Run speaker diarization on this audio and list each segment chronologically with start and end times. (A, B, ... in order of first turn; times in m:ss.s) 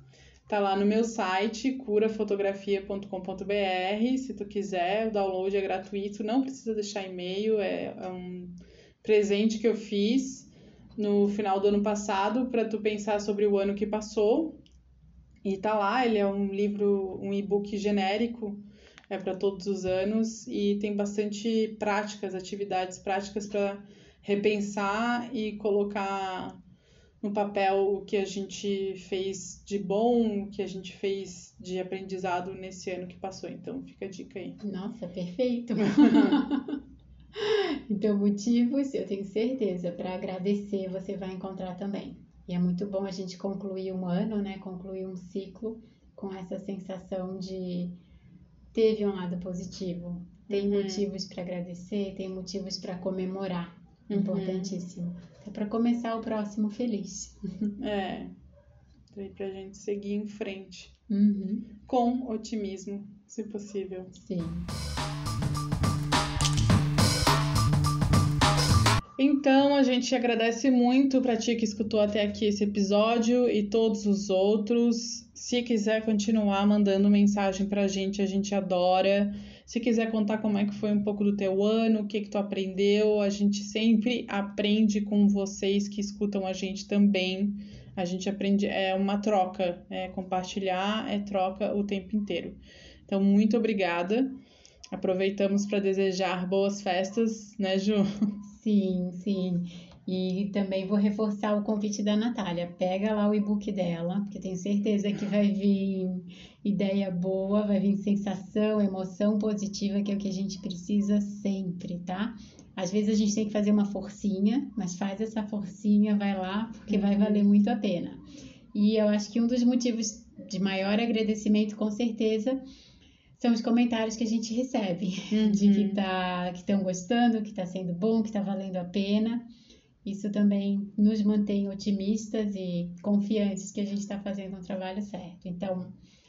0:00.5-0:14.6 A
0:15.4-0:26.6 A
0:27.2-0:34.6 A
0:34.6-0:36.8 B
0:36.0-0:36.4 A
0:37.4-0:48.0 B
0:48.7-0:57.7 B
0:50.5-0:51.1 A
0:54.1-0:54.7 A
0:57.8-0:58.4 A
0:59.1-1:00.9 A
1:01.1-1:01.7 B
1:01.9-1:04.1 A
1:04.1-1:04.7 B
1:09.2-1:34.4 A
1:34.9-1:38.1 A
1:38.5-1:58.2 B
1:56.9-1:57.4 A
1:58.7-2:02.6 B
2:03.4-2:09.5 B
2:05.3-2:06.0 A
2:10.0-2:16.0 B